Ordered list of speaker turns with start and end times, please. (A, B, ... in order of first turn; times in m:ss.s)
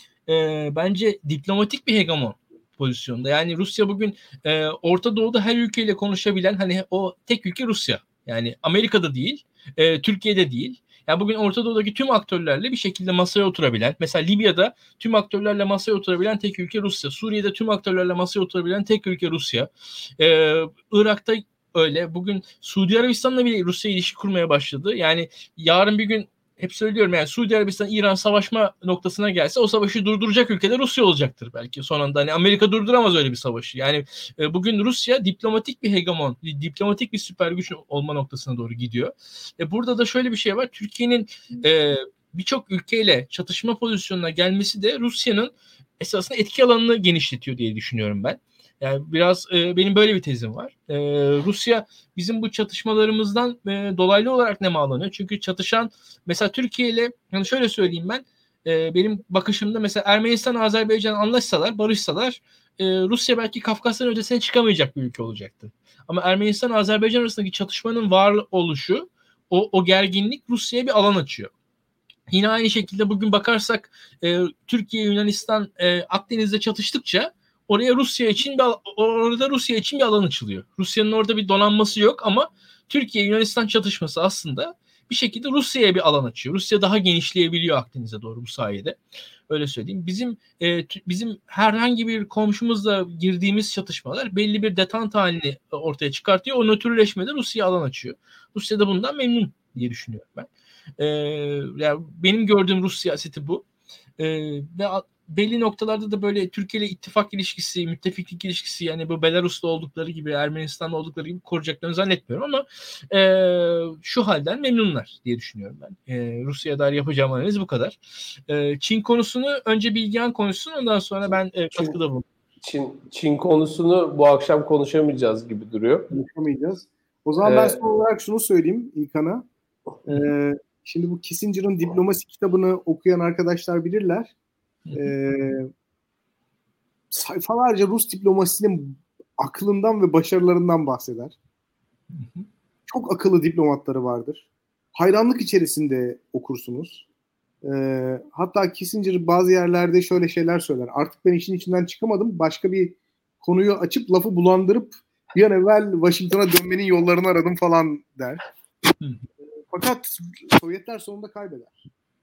0:00.3-1:11.5 A
1:12.3-1:29.0 A
1:29.5-1:40.5 A
1:41.0-1:43.6 A
1:44.2-2:02.2 A
2:02.6-2:06.1 B
2:06.1-2:09.4 C
2:07.4-2:07.8 B
2:10.1-2:14.3 C
2:14.9-2:15.1 A
2:14.9-2:15.7 C
2:17.1-2:21.4 C
2:22.1-2:22.5 A
2:22.9-2:27.0 C
2:27.6-2:38.4 C
2:39.7-2:41.9 C